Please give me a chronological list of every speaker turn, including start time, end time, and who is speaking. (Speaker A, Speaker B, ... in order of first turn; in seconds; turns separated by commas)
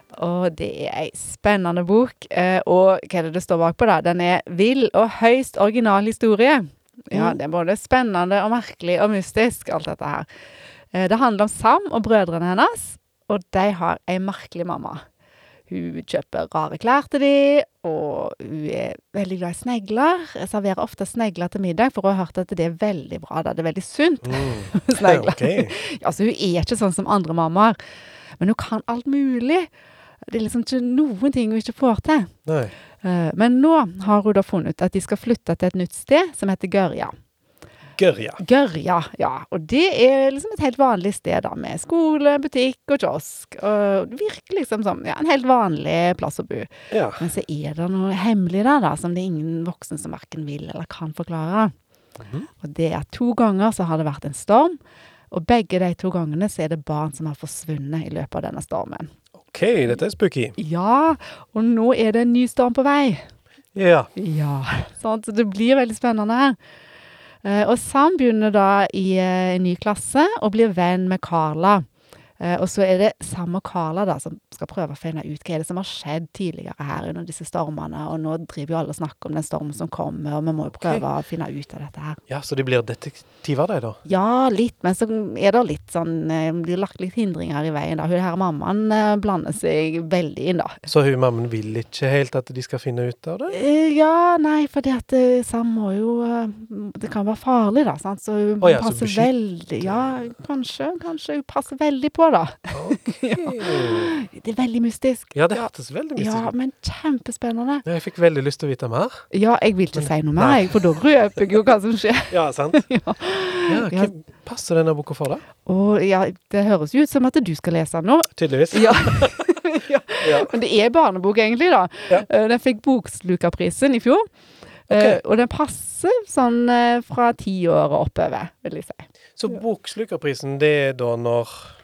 Speaker A: 0.1-10.2, Speaker A: 10.9-15.0, Speaker A: 15.7-27.8, Speaker B: 24.2-25.7, Speaker A: 28.4-29.7, Speaker A: 30.3-32.3, Speaker B: 32.5-32.7, Speaker A: 33.0-37.1, Speaker B: 38.0-38.4, Speaker A: 38.4-51.7, Speaker B: 46.9-47.2, Speaker B: 52.2-52.5, Speaker A: 52.6-54.8, Speaker A: 55.3-59.1, Speaker B: 59.4-60.5, Speaker A: 60.6-63.2, Speaker B: 63.7-64.1, Speaker A: 64.2-66.6, Speaker A: 67.4-71.8, Speaker A: 72.4-82.2, Speaker B: 82.3-84.0, Speaker A: 84.0-90.8, Speaker B: 90.9-93.6, Speaker A: 93.5-107.8, Speaker B: 98.6-99.3, Speaker B: 99.8-100.1, Speaker B: 102.7-104.1, Speaker B: 105.3-106.5, Speaker B: 107.8-109.2, Speaker A: 109.3-114.1, Speaker B: 110.0-111.0, Speaker B: 112.3-112.8, Speaker B: 113.7-115.4, Speaker A: 115.6-124.2, Speaker B: 118.4-119.5, Speaker B: 120.2-120.5, Speaker A: 124.9-129.6, Speaker B: 124.9-125.2, Speaker B: 129.4-131.7